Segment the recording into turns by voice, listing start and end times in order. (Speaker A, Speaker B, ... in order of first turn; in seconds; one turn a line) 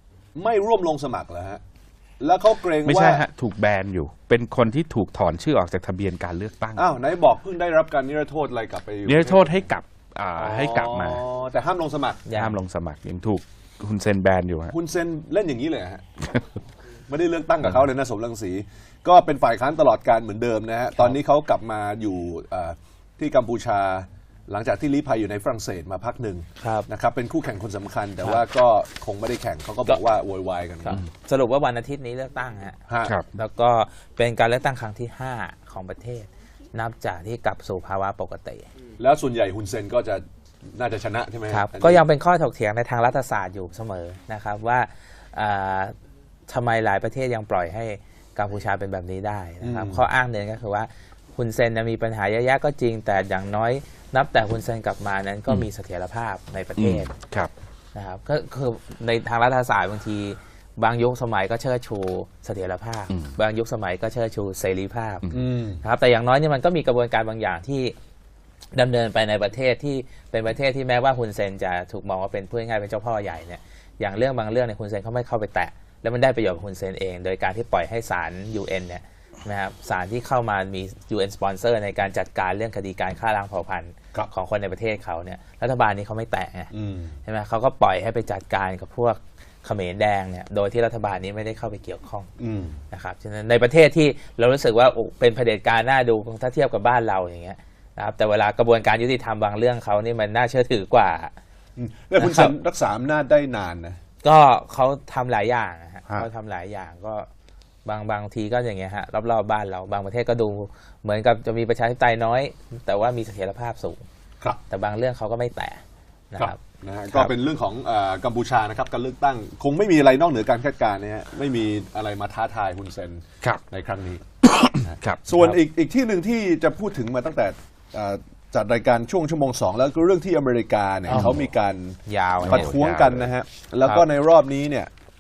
Speaker A: 0.3-1.6
Speaker A: 2.2-3.3
Speaker B: 2.9-6.8
Speaker A: 6.8-9.7
Speaker B: 9.1-11.2
Speaker A: 10.4-12.2
Speaker C: 12.3-12.6
Speaker B: 12.3-14.7
Speaker A: 14.7-16.2
Speaker A: 17.1-31.0
Speaker C: 26.6-26.9
Speaker C: 30.9-38.7
Speaker A: 32.9-33.2
Speaker A: 39.0-42.0
Speaker C: 41.5-45.9
Speaker C: 46.5-57.1
Speaker A: 49.6-50.1
Speaker B: 56.8-57.5
Speaker C: 58.0-68.0
Speaker A: 65.3-65.8
Speaker C: 68.7-86.7
Speaker A: 86.7-87.2
Speaker C: 87.2-92.3
Speaker A: 92.4-92.8
Speaker C: 92.9-101.3
Speaker A: 101.8-104.0
Speaker C: 102.2-102.5
Speaker C: 104.2-107.3
Speaker C: 107.9-114.0
Speaker C: 114.7-115.8
Speaker C: 116.3-116.6
Speaker A: 116.4-134.9
Speaker B: 124.4-125.5
Speaker B: 131.1-131.4
Speaker C: 131.1-131.4
Speaker C: 132.1-132.8
Speaker B: 132.4-133.3